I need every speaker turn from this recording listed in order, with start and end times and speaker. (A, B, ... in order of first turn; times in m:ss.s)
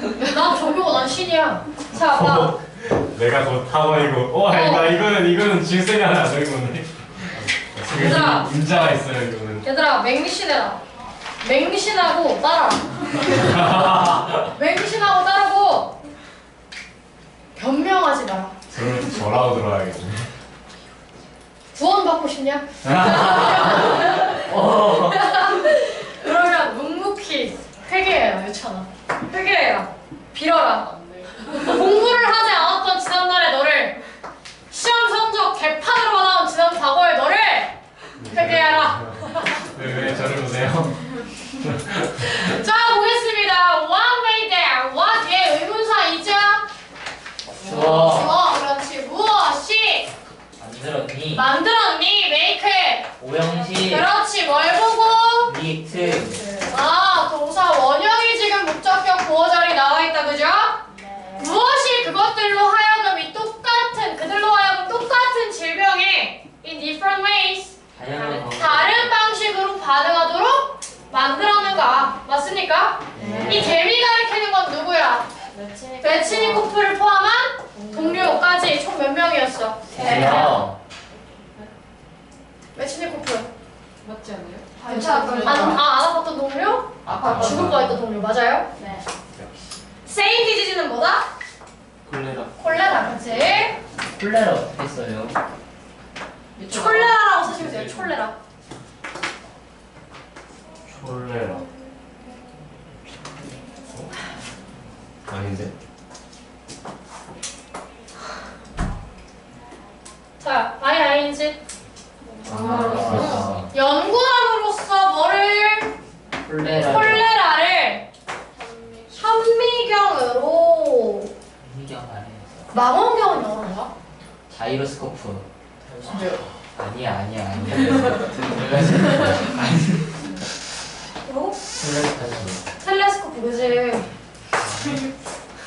0:00.1-0:02.5 A
0:01.9-0:09.6 B
0:04.5-0:05.0 A
0:07.9-0:08.5 A
0:09.6-0:10.8 A
0:11.4-0:13.5 A
0:13.3-0:14.5 B
0:14.5-0:16.0 A
0:17.5-0:18.5 A
0:18.7-0:20.3 B
0:21.7-0:30.9 A
0:22.8-0:25.3 C
0:31.0-0:31.8 D
0:31.5-0:34.0 A
0:34.7-0:37.7 A
0:38.2-0:42.6 B
0:38.2-0:39.7 A
0:42.3-0:46.7 A
0:47.6-0:48.2 D
0:47.6-0:48.4 C
0:47.6-0:50.1 A
0:50.6-0:51.5 C
0:51.3-0:53.1 A
0:53.2-0:54.1 C
0:53.7-0:55.5 A
0:55.4-0:56.4 C
0:55.9-0:56.8 D
0:56.6-1:00.8 A
1:00.9-1:01.5 D
1:01.4-1:15.3 A
1:07.9-1:09.1 C
1:13.1-1:13.8 C
1:13.1-1:13.8 D
1:15.5-1:16.7 D
1:16.0-1:20.6 A
1:17.7-1:18.5 D
1:19.9-1:20.8 C
1:19.9-1:20.6 D
1:22.7-1:23.5 A
1:24.0-1:25.8 D
1:24.8-1:28.7 A
1:27.1-1:27.8 C
1:27.1-1:27.8 B
1:27.2-1:27.5 E
1:27.4-1:27.7 D
1:28.8-1:29.0 D
1:29.3-1:29.8 C
1:30.1-1:31.3 A
1:32.1-1:33.0 E
1:32.6-1:33.8 A
1:34.0-1:35.3 C
1:36.6-1:37.2 D
1:36.7-1:38.4 A
1:37.4-1:38.1 C
1:40.9-1:41.7 B
1:45.3-1:45.7 B
1:50.4-1:51.6 A
1:52.2-1:53.6 D
1:52.4-1:53.7 C
1:52.5-1:55.9 A
1:56.4-1:57.3 C
1:56.8-1:58.0 A
1:58.5-1:59.3 D
1:59.1-2:01.3 A
2:01.6-2:02.7 C
2:02.7-2:03.9 A
2:04.5-2:05.4 C
2:06.0-2:06.4 D
2:06.7-2:10.1 C
2:07.6-2:08.3 D
2:08.1-2:09.3 E
2:11.2-2:11.6 A
2:11.8-2:12.6 C
2:12.8-2:14.1 A
2:14.6-2:15.0 C